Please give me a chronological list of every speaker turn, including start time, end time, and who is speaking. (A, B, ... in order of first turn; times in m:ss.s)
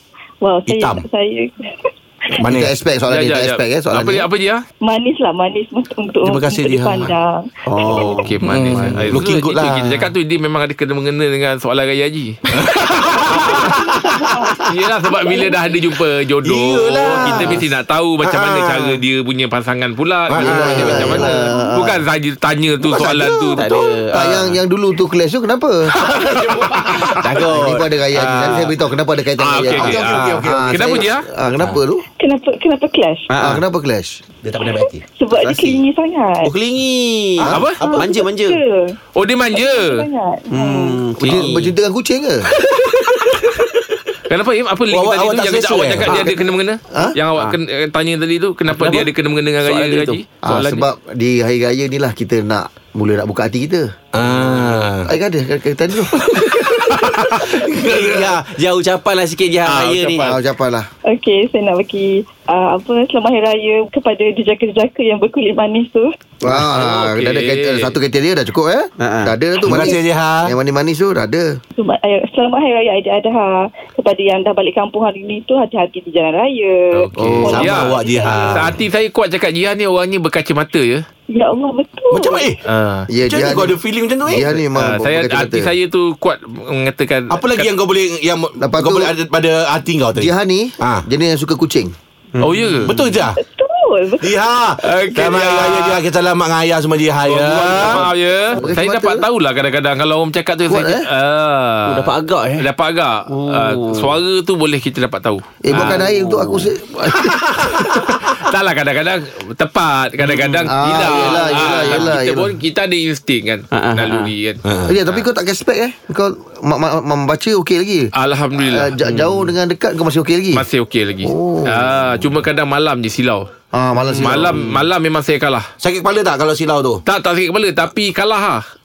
0:00.4-0:01.9 A
0:00.7-0:01.0 B
0:02.4-0:04.3 C
0:02.4-0:02.7 B
0:03.1-0:04.6 D
0:04.8-0:08.2 A
0:06.2-0:07.1 B
0:07.6-0:09.0 C
0:07.8-0:12.4 D
0:08.4-0:10.1 B
0:12.5-0:14.4 B
0:13.2-0:15.8 A
0:14.6-0:23.7 D
0:16.4-0:17.7 B
0:18.2-0:19.0 B
0:20.3-0:21.3 B
0:20.3-0:22.0 C
0:21.3-0:21.7 A
0:22.8-0:25.9 C
0:23.5-0:24.6 E
0:25.9-0:27.6 B
0:26.3-0:27.2 D
0:27.2-0:27.9 E
0:27.3-0:32.0 C
0:28.1-0:28.7 B
0:29.4-0:31.3 D
0:29.7-0:31.0 B
0:32.2-0:33.3 A
0:33.3-0:33.6 E
0:33.4-0:34.2 C
0:34.4-0:35.0 B
0:34.7-0:36.5 A
0:35.4-0:35.8 C
0:36.4-0:38.6 E
0:37.5-0:37.8 D
0:37.8-0:38.0 B
0:37.8-0:39.0 A
0:39.1-0:40.0 D
0:39.5-0:41.0 A
0:40.5-0:41.7 E
0:41.2-0:42.5 C
0:44.3-0:50.8 D
0:44.9-0:46.4 B
0:46.0-0:46.3 C
0:46.9-0:47.2 C
0:48.7-0:49.1 E
0:49.6-0:50.2 E
0:50.4-0:53.9 C
0:54.1-0:55.1 B
0:54.3-0:54.8 E
0:55.0-0:56.4 C
0:56.2-0:58.5 B
0:57.8-1:00.3 E
0:59.6-1:00.4 D
1:00.2-1:00.9 C
1:01.1-1:06.1 A
1:06.4-1:11.6 C
1:06.6-1:07.9 D
1:09.0-1:09.3 E
1:09.6-1:10.5 B
1:11.8-1:18.7 A
1:16.9-1:21.0 D
1:17.2-1:17.6 E
1:17.4-1:18.8 B
1:21.3-1:22.4 A
1:22.1-1:22.6 B
1:22.6-1:23.1 D
1:23.1-1:25.7 C
1:23.2-1:24.6 B
1:24.8-1:27.7 D
1:27.3-1:31.0 B
1:28.6-1:29.1 C
1:30.1-1:31.9 C
1:32.3-1:33.0 E
1:32.4-1:32.9 D
1:32.8-1:33.4 B
1:33.4-1:34.4 A
1:34.2-1:38.1 B
1:34.8-1:36.0 D
1:37.2-1:46.0 D
1:38.5-1:39.3 C
1:40.7-1:41.0 C
1:41.8-1:42.6 E
1:43.3-1:44.2 E
1:45.6-1:47.4 C
1:45.7-1:46.7 E
1:47.0-1:54.6 D
1:50.2-1:51.9 E
1:50.7-1:52.5 C
1:53.7-1:54.3 E
1:54.6-1:55.0 B
1:54.9-2:00.6 C
1:58.1-1:58.9 D
1:59.0-1:59.5 E
2:00.5-2:03.5 D
2:01.2-2:01.9 C
2:03.7-2:04.7 C
2:04.0-2:04.8 E
2:04.2-2:05.7 D
2:05.8-2:07.0 B
2:07.0-2:08.6 D